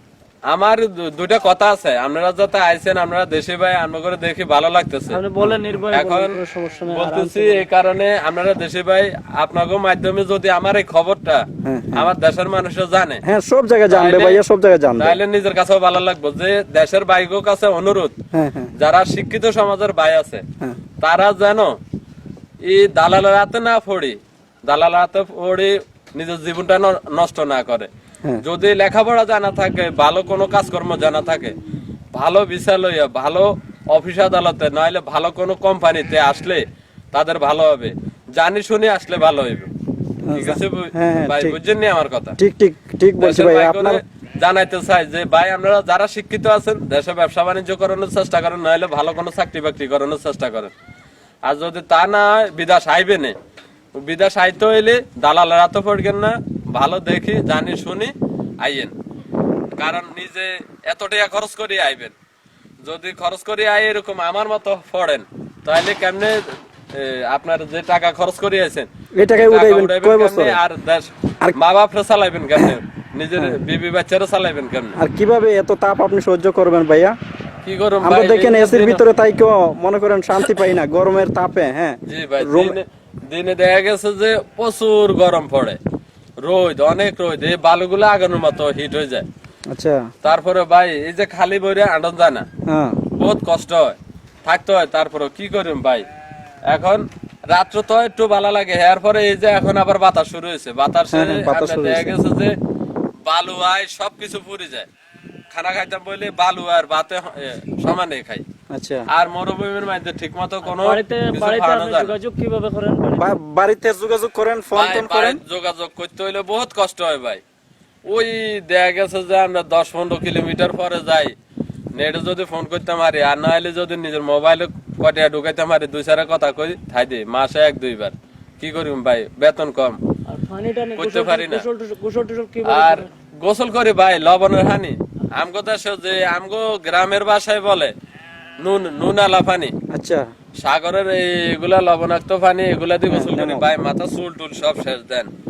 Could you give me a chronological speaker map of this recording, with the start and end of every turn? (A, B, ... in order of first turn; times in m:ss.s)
0:00.5-0:05.2 A
0:05.1-0:07.6 B
0:05.9-0:13.2 A
0:11.6-0:12.1 C
0:13.2-0:15.2 C
0:13.9-0:14.4 A
0:15.0-0:18.1 A
0:18.3-0:18.7 C
0:18.8-0:20.4 A
0:21.0-0:21.8 A
0:22.6-0:27.9 A
0:28.4-0:31.6 A
0:32.1-0:39.7 A
0:40.2-0:41.6 C
0:40.3-0:42.4 A
0:42.4-0:44.0 C
0:43.2-0:50.7 A
0:51.4-0:53.4 A
0:54.0-0:58.9 A
0:59.8-1:02.1 A
1:02.8-1:15.0 A
1:09.2-1:10.6 C
1:15.0-1:17.1 C
1:17.6-1:19.0 A
1:18.0-1:22.8 C
1:20.4-1:20.6 A
1:22.0-1:25.8 A
1:26.4-1:29.3 A
1:29.7-1:30.1 C
1:30.2-1:32.5 A
1:32.7-1:33.0 C
1:33.2-1:36.1 A
1:36.7-1:42.6 A
1:41.1-1:42.1 C
1:43.2-1:44.9 A
1:45.5-1:48.4 A
1:48.7-1:49.1 C
1:49.1-1:52.1 A
1:50.8-1:53.2 B
1:53.2-1:55.4 C
1:54.7-1:57.4 A
1:58.0-2:01.3 A
2:01.9-2:10.0 A
2:10.4-2:12.9 B
2:11.0-2:11.7 A
2:12.6-2:17.9 A
2:18.6-2:19.7 A
2:19.9-2:20.3 C
2:20.6-2:25.3 A
2:23.1-2:23.6 C